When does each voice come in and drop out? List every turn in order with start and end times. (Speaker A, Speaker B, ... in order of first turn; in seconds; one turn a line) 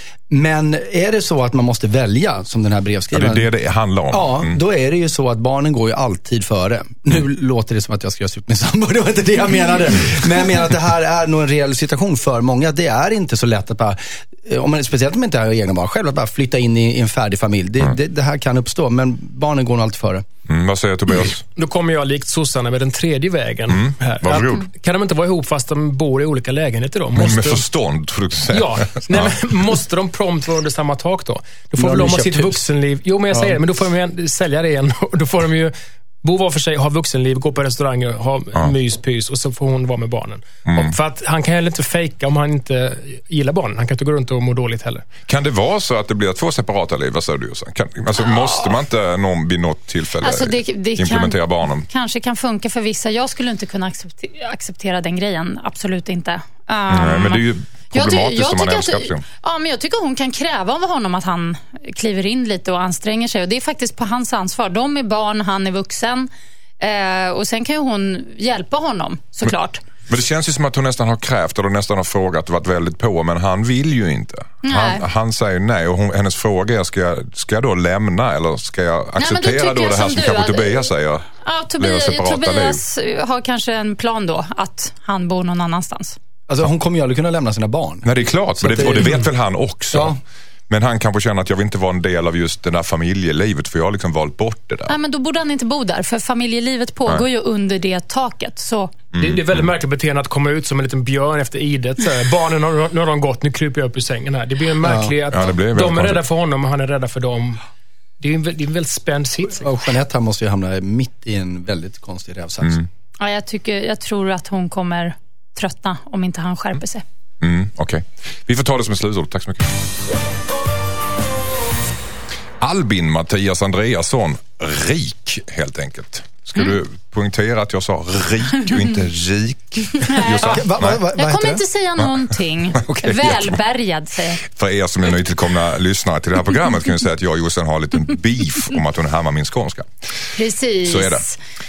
Speaker A: 0.3-3.5
Speaker B: 3.1-4.6
Speaker A: 4.1-20.2
Speaker B: 20.5-21.4
Speaker C: 21.2-27.6
Speaker B: 23.7-24.7
Speaker B: 27.1-29.4
Speaker C: 28.5-45.0
Speaker A: 31.8-32.6
Speaker A: 33.3-33.6
Speaker B: 40.7-40.9
Speaker B: 45.3-51.9
Speaker D: 48.1-48.8
Speaker D: 50.2-69.8
Speaker B: 56.9-59.2
Speaker B: 70.1-81.2
Speaker D: 74.6-75.0
Speaker D: 79.2-86.2
Speaker B: 81.8-82.8
Speaker A: 86.5-88.1
Speaker B: 88.0-95.0
Speaker A: 88.6-89.3
Speaker A: 89.9-90.2
Speaker D: 94.9-98.9
Speaker B: 99.1-99.7
Speaker C: 99.2-107.6
Speaker A: 104.8-105.1
Speaker B: 105.3-106.2
Speaker C: 108.2-109.7
Speaker A: 109.6-112.8
Speaker B: 112.6-112.9
Speaker D: 113.2-117.0
Speaker B: 117.4-119.7
Speaker B: 122.6-131.0
Speaker D: 130.1-130.6
Speaker A: 130.4-131.6
Speaker D: 131.1-134.4
Speaker B: 132.8-133.6
Speaker B: 134.5-139.9
Speaker D: 140.3-141.4
Speaker B: 140.8-141.2